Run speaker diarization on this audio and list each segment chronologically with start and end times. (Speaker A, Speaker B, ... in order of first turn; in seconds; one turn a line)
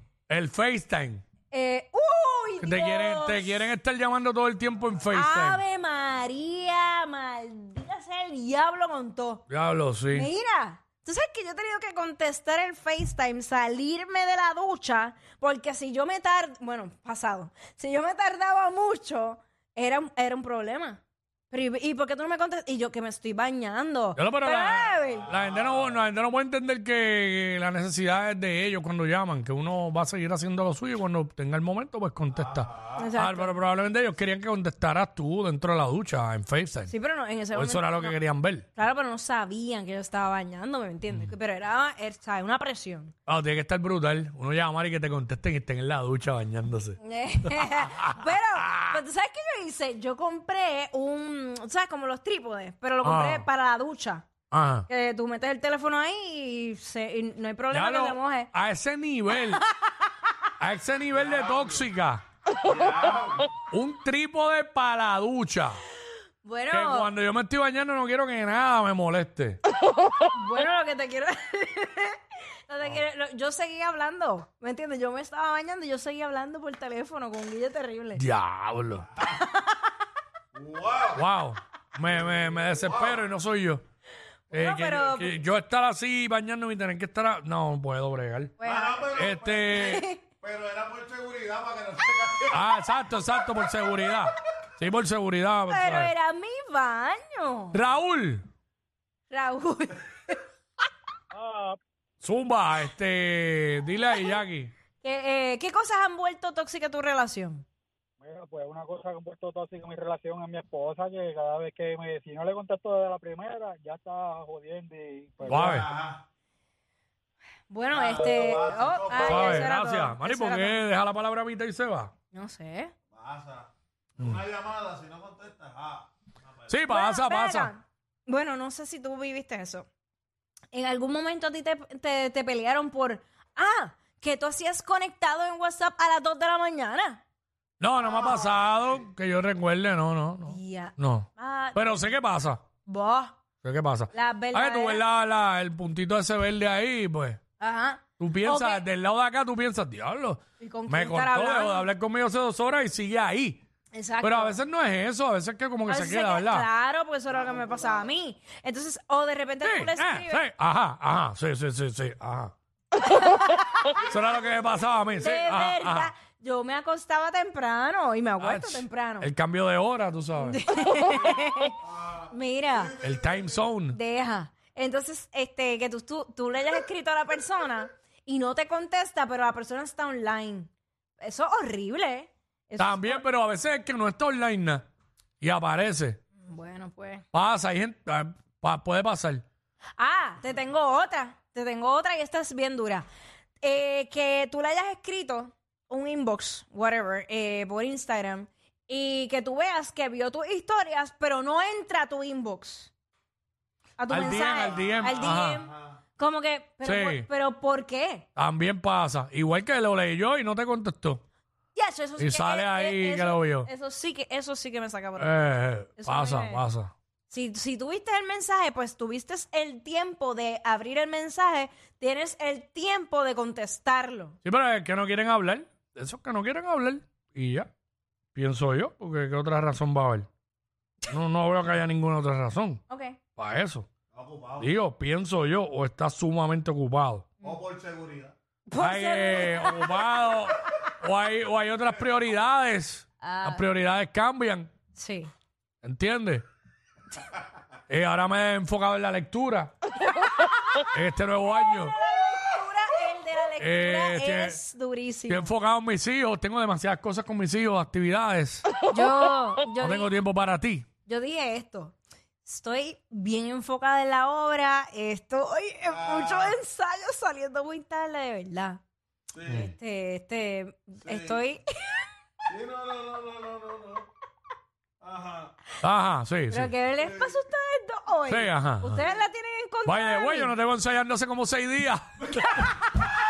Speaker A: 0.3-1.2
Speaker B: 1.5-3.7
Speaker A: 2.6-5.6
Speaker B: 5.1-9.4
Speaker A: 9.5-10.3
Speaker B: 10.1-25.3
Speaker A: 24.1-36.9
Speaker C: 25.5-25.9
Speaker C: 32.4-33.0
Speaker B: 33.0-33.5
Speaker B: 36.9-38.2
Speaker A: 37.5-38.6
Speaker B: 38.7-43.1
Speaker A: 43.3-49.0
Speaker B: 47.0-54.3
Speaker A: 53.0-53.5
Speaker A: 54.5-54.9
Speaker B: 54.9-58.5
Speaker A: 57.7-59.6
Speaker A: 60.6-62.2
Speaker C: 61.1-61.9
Speaker C: 62.6-63.5
Speaker A: 63.7-65.8
Speaker B: 66.4-67.1
Speaker A: 66.7-69.6
Speaker B: 70.2-78.2
Speaker A: 78.1-79.1
Speaker B: 79.2-79.8
Speaker C: 80.5-81.2
Speaker A: 81.1-83.8
Speaker C: 82.2-83.2
Speaker B: 84.5-85.4
Speaker A: 84.5-88.5
Speaker B: 88.6-90.2
Speaker C: 88.6-89.8
Speaker A: 89.1-90.0
Speaker C: 90.4-92.6
Speaker A: 92.5-96.1
Speaker B: 95.7-97.8
Speaker A: 97.7-98.4
Speaker B: 99.3-100.4
Speaker D: 101.3-101.8
Speaker A: 102.2-104.7
Speaker B: 105.0-107.7
Speaker D: 108.2-115.7
Speaker A: 115.5-115.9
Speaker C: 115.5-116.2
Speaker B: 117.7-120.8
Speaker C: 117.9-119.5
Speaker A: 119.2-122.1
Speaker B: 122.3-122.9
Speaker C: 123.1-126.7
Speaker A: 126.7-127.7
Speaker B: 126.9-129.9
Speaker B: 130.7-137.2
Speaker A: 137.8-142.6
Speaker C: 138.2-138.7
Speaker B: 140.4-142.1
Speaker B: 142.8-143.4
Speaker A: 143.6-147.4
Speaker B: 144.1-145.0
Speaker B: 147.6-148.8
Speaker A: 148.2-153.6
Speaker B: 150.6-151.9
Speaker B: 153.9-154.6
Speaker A: 154.2-156.7
Speaker B: 155.9-160.4
Speaker C: 157.3-158.0
Speaker A: 159.6-162.5
Speaker B: 163.0-163.9
Speaker A: 164.1-166.1
Speaker B: 165.2-169.3
Speaker A: 168.4-170.6
Speaker B: 170.4-171.8
Speaker C: 171.3-173.6
Speaker B: 172.3-173.0
Speaker A: 173.0-174.0
Speaker B: 173.9-183.2
Speaker A: 182.8-184.9
Speaker A: 185.4-186.2
Speaker B: 186.4-187.2
Speaker A: 187.3-189.4
Speaker B: 190.0-193.1
Speaker B: 193.6-202.9
Speaker B: 204.0-208.2
Speaker A: 204.1-205.7
Speaker C: 204.7-205.9
Speaker A: 206.8-207.3
Speaker A: 208.3-211.2
Speaker B: 211.7-216.6
Speaker A: 212.2-213.7
Speaker A: 215.2-216.9
Speaker B: 217.3-224.4
Speaker A: 224.4-227.7
Speaker A: 228.3-230.3
Speaker A: 231.1-232.8
Speaker B: 232.9-233.2
Speaker A: 233.4-233.9
Speaker C: 234.1-234.7
Speaker A: 234.6-237.3
Speaker C: 237.4-238.3
Speaker B: 238.7-240.1
Speaker A: 238.8-244.7
Speaker B: 243.2-243.6
Speaker B: 244.9-245.3
Speaker A: 245.8-246.4
Speaker A: 247.9-249.7
Speaker A: 250.9-251.9
Speaker B: 251.6-255.5
Speaker A: 253.6-254.6
Speaker A: 255.3-258.7
Speaker B: 258.9-260.1
Speaker A: 259.8-260.9
Speaker B: 261.1-268.8
Speaker C: 265.9-266.6
Speaker C: 269.3-269.7
Speaker B: 269.5-272.1
Speaker C: 271.0-271.4
Speaker C: 272.5-274.1
Speaker C: 275.0-275.5
Speaker A: 275.8-276.7
Speaker B: 276.5-280.5
Speaker C: 277.0-277.3
Speaker A: 278.3-279.0
Speaker A: 279.8-282.6